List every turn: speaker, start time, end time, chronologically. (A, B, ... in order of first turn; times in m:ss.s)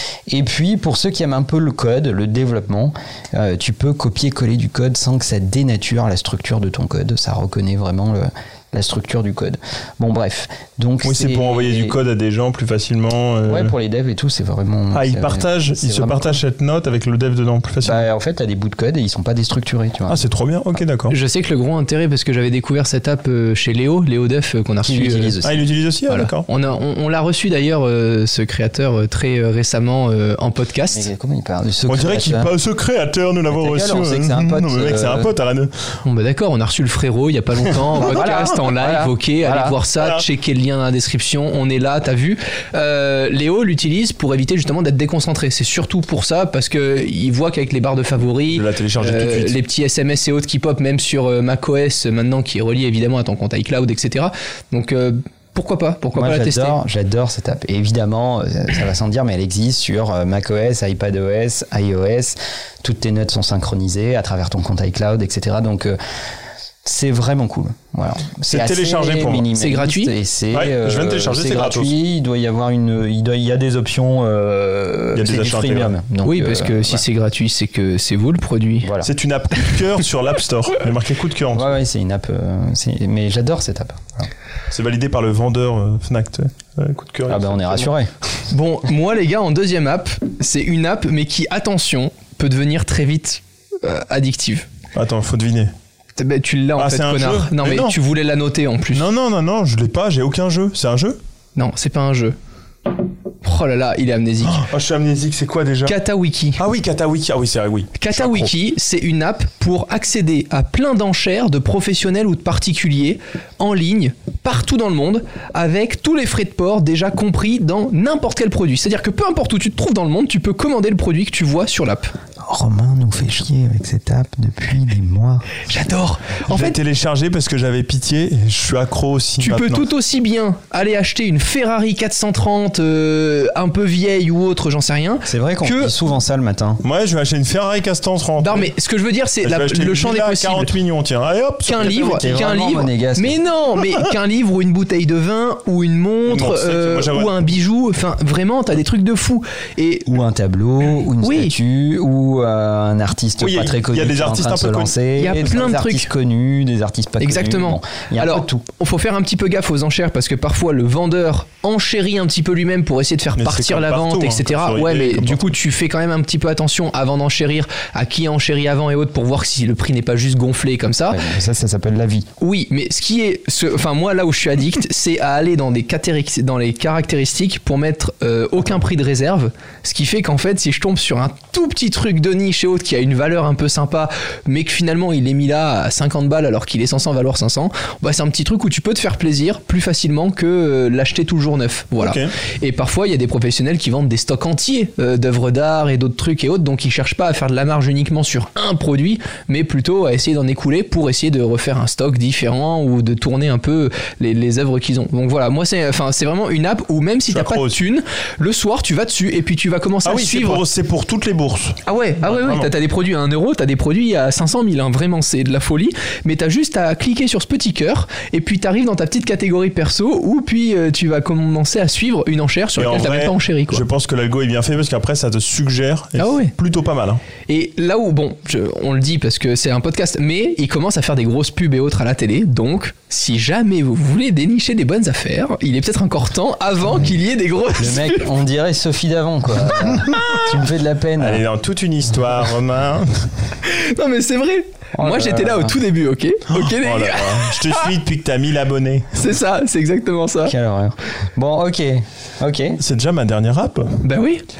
0:00.3-0:12.0 A
0:11.0-0:13.7 B
0:13.5-0:16.4 A
0:14.9-0:18.0 B
0:17.8-0:20.2 A
0:20.1-0:21.2 B
0:21.1-0:25.4 C
0:24.8-0:25.6 A
0:25.4-0:26.5 B
0:26.1-0:31.1 C
0:30.9-0:32.5 A
0:31.9-0:36.0 B
0:33.5-0:35.3 A
0:36.0-0:56.8 C
0:38.0-0:39.8 A
0:38.0-0:38.5 B
0:40.0-0:40.2 B
0:48.5-0:49.6 B
0:56.2-1:06.0 A
1:06.8-1:17.0 A
1:08.5-1:09.5 B
1:09.6-1:10.1 C
1:10.5-1:11.9 B
1:15.1-1:15.9 B
1:16.2-1:18.9 C
1:18.8-1:19.1 A
1:19.0-1:21.7 B
1:21.5-1:24.3 A
1:24.7-1:27.9 B
1:27.3-1:28.1 A
1:28.5-1:34.7 C
1:34.9-1:35.7 B
1:36.2-1:39.1 C
1:36.8-1:38.0 B
1:38.9-1:41.2 B
1:41.6-1:42.4 C
1:43.4-1:44.6 C
1:44.4-1:46.0 B
1:45.8-1:46.6 C
1:46.6-1:48.5 B
1:48.0-2:02.1 C
2:02.4-2:05.5 A
2:05.7-2:06.8 C
2:06.5-2:09.9 B
2:09.4-2:15.9 C
2:15.3-2:16.8 A
2:16.8-2:18.7 B
2:18.4-2:20.7 C
2:19.4-2:22.2 B
2:21.6-2:30.1 C
2:21.8-2:23.4 A
2:26.3-2:27.4 B
2:30.1-2:38.6 A
2:31.2-2:31.5 C
2:33.4-2:34.9 B
2:35.2-2:36.1 C
2:37.2-2:51.2 C
2:43.4-2:45.6 B
2:51.1-2:52.3 A
2:52.4-3:30.6 C
3:12.0-3:12.3 B
3:27.3-3:27.8 B
3:30.0-3:32.7 B
3:31.8-3:43.8 C
3:42.8-3:47.2 B
3:46.2-3:46.5 C
3:47.5-3:58.3 C
3:57.8-4:01.4 A
4:00.1-4:00.4 C
4:01.2-4:03.3 B
4:03.6-4:07.9 C
4:05.0-4:05.8 A
4:06.5-4:09.2 B
4:09.1-4:10.6 C
4:10.5-4:12.8 A
4:12.8-4:14.0 B
4:14.0-4:14.4 C